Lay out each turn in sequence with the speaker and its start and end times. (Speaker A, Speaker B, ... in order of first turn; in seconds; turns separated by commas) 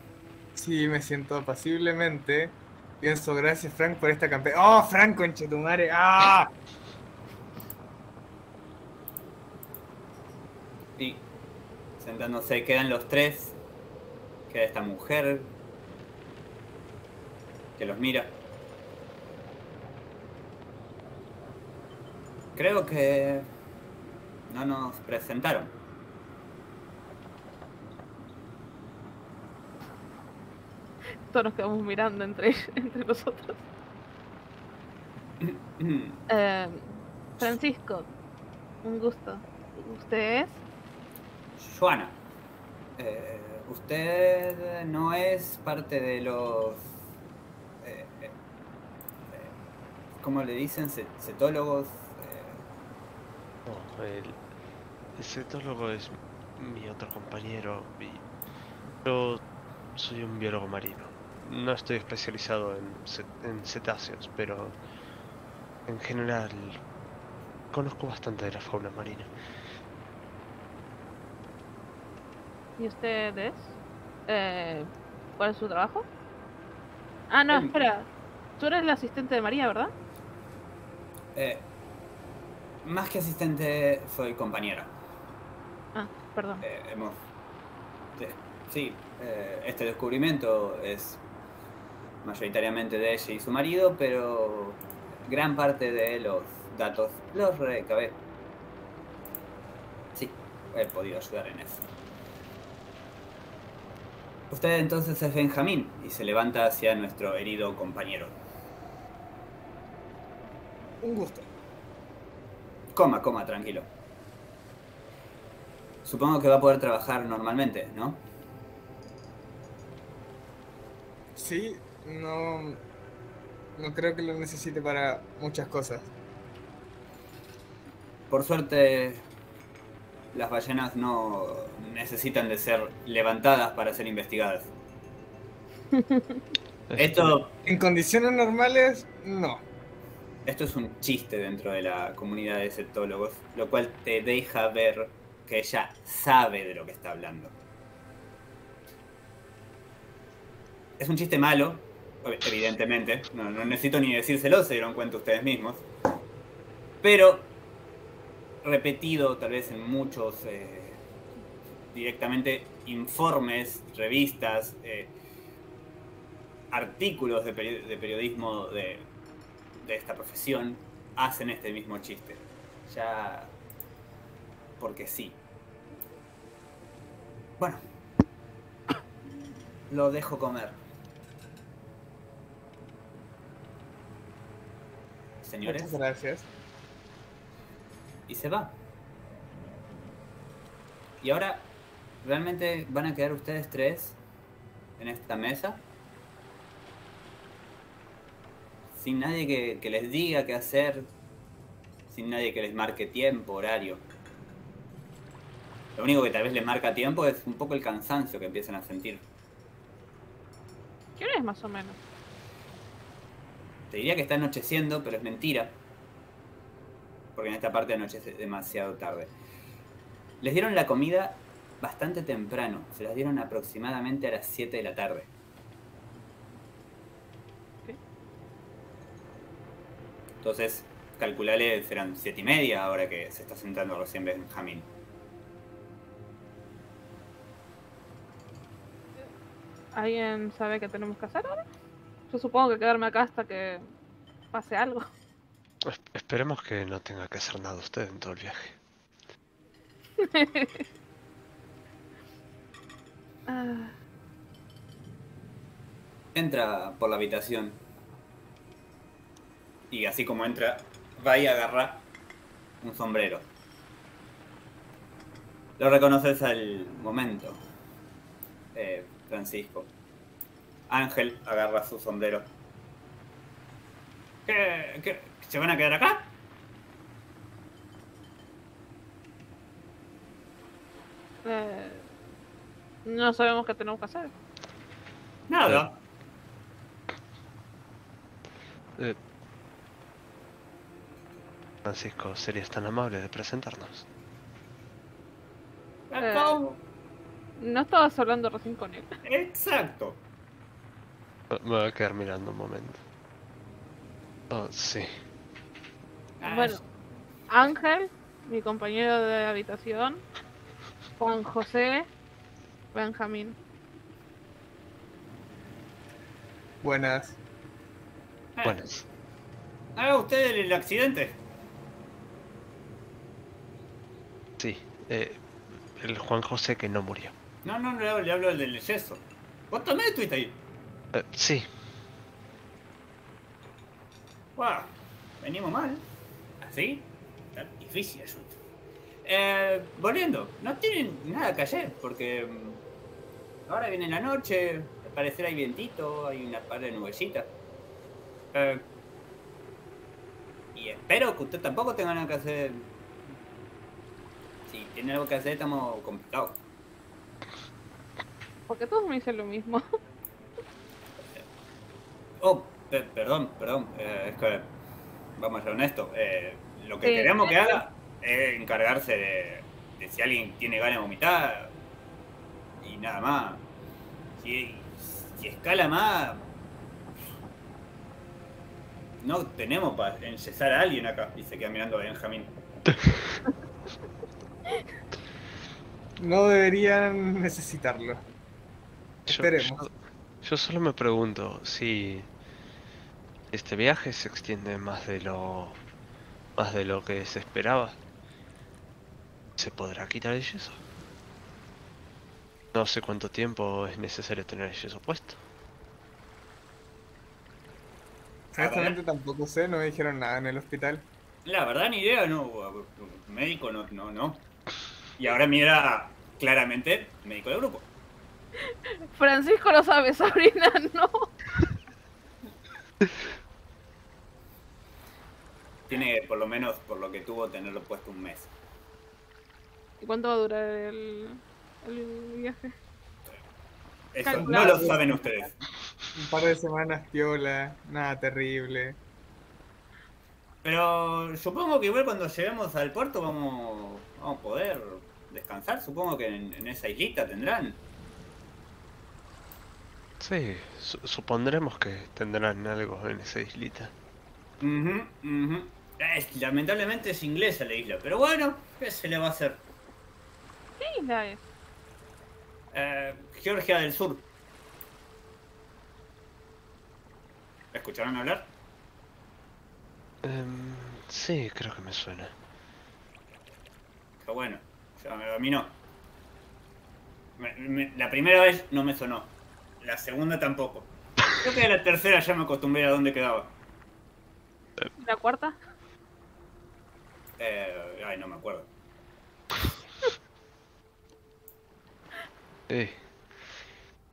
Speaker A: 0.6-6.5, Speaker B: 11.0-11.2, Speaker B: 12.0-13.6, Speaker B: 14.5-15.5, Speaker B: 17.8-18.4, Speaker B: 22.6-23.5, Speaker B: 24.5-25.7, Speaker C: 31.3-33.6, Speaker B: 35.4-36.2, Speaker C: 36.3-38.1, Speaker C: 38.8-40.6, Speaker B: 41.6-42.2, Speaker B: 43.0-46.9, Speaker B: 47.8-48.3, Speaker B: 50.2-52.6, Speaker D: 53.6-54.4, Speaker D: 55.1-58.2, Speaker D: 59.0-64.8, Speaker D: 65.9-66.8, Speaker D: 67.7-69.3, Speaker C: 72.8-73.8, Speaker C: 74.3-76.1, Speaker C: 77.3-79.9, Speaker B: 77.5-77.8, Speaker B: 81.3-81.7, Speaker B: 82.8-84.9, Speaker C: 85.9-86.6, Speaker B: 86.6-87.2, Speaker B: 88.2-91.2, Speaker B: 92.2-98.2, Speaker B: 100.1-101.9, Speaker B: 104.5-108.4, Speaker A: 111.0-111.5, Speaker B: 112.9-113.9, Speaker B: 116.0-118.2, Speaker A: 121.3-122.8, Speaker A: 123.8-126.1, Speaker B: 128.3-129.2, Speaker B: 130.3-134.7, Speaker C: 135.9-136.4, Speaker D: 136.9-137.4, Speaker B: 136.9-137.5, Speaker A: 137.6-139.6, Speaker B: 140.4-147.6, Speaker B: 151.0-155.8, Speaker B: 157.0-157.5, Speaker B: 158.6-161.0, Speaker B: 161.9-165.1, Speaker B: 166.7-169.1, Speaker B: 169.8-173.5, Speaker B: 174.8-175.4, Speaker B: 179.9-180.8, Speaker B: 185.4-186.0, Speaker A: 185.6-186.5, Speaker B: 188.3-188.8, Speaker B: 191.2-191.7, Speaker B: 192.2-194.2, Speaker B: 195.0-195.8, Speaker B: 198.9-201.1, Speaker B: 202.1-204.0, Speaker B: 205.9-209.2, Speaker C: 211.2-212.0, Speaker B: 213.9-215.8, Speaker B: 217.3-219.3, Speaker B: 220.4-225.3, Speaker B: 230.4-234.9, Speaker C: 239.9-241.6, Speaker C: 242.3-243.8, Speaker C: 244.5-245.1, Speaker D: 245.8-248.8, Speaker C: 250.2-250.8, Speaker C: 253.5-253.9, Speaker B: 256.3-257.8, Speaker B: 259.9-262.0, Speaker B: 262.8-263.5, Speaker B: 265.8-267.6, Speaker B: 268.7-269.9, Speaker B: 270.9-272.5, Speaker B: 274.4-276.3, Speaker C: 281.4-282.0, Speaker C: 283.0-284.3, Speaker B: 285.5-286.0, Speaker D: 291.8-294.1, Speaker B: 296.1-296.8, Speaker C: 296.2-296.6, Speaker C: 297.6-299.1, Speaker B: 299.2-300.2, Speaker D: 301.5-303.0, Speaker D: 304.5-305.1, Speaker B: 306.4-306.8, Speaker C: 306.4-306.8, Speaker C: 307.5-310.2, Speaker C: 311.2-312.1, Speaker C: 312.9-313.6, Speaker A: 316.8-317.4, Speaker B: 318.6-318.9, Speaker D: 318.6-319.0, Speaker B: 319.9-321.4, Speaker D: 324.6-325.4, Speaker D: 326.0-327.3, Speaker B: 327.6-330.6, Speaker D: 331.1-331.7, Speaker B: 334.6-336.1, Speaker B: 336.6-338.6, Speaker B: 339.2-342.8, Speaker B: 343.7-347.5, Speaker B: 348.5-348.9, Speaker B: 350.7-352.9, Speaker B: 354.7-356.6, Speaker C: 358.7-359.8, Speaker B: 362.4-364.7, Speaker B: 365.4-371.7, Speaker C: 367.0-367.8, Speaker B: 372.8-373.6, Speaker B: 374.4-376.4, Speaker B: 379.2-382.5, Speaker D: 382.9-383.4, Speaker A: 386.2-388.2, Speaker A: 389.3-389.9, Speaker D: 389.3-389.9, Speaker D: 390.4-392.3, Speaker D: 393.5-395.8, Speaker D: 396.6-398.0, Speaker D: 399.6-400.8, Speaker D: 402.7-405.4, Speaker A: 408.5-411.0, Speaker B: 408.6-409.0, Speaker B: 411.4-414.5, Speaker B: 415.1-417.9, Speaker C: 419.1-421.3, Speaker B: 425.9-428.5, Speaker C: 430.0-432.7, Speaker B: 434.1-435.6, Speaker C: 434.2-435.0, Speaker A: 434.4-435.0, Speaker A: 436.1-439.0, Speaker B: 440.6-447.8, Speaker D: 450.2-453.9, Speaker B: 454.6-459.6, Speaker C: 460.8-461.4, Speaker B: 462.7-464.2, Speaker B: 467.7-468.5, Speaker D: 470.2-472.3, Speaker B: 474.2-475.8, Speaker B: 477.4-483.5, Speaker C: 485.0-485.6, Speaker B: 487.4-488.7, Speaker D: 492.7-493.0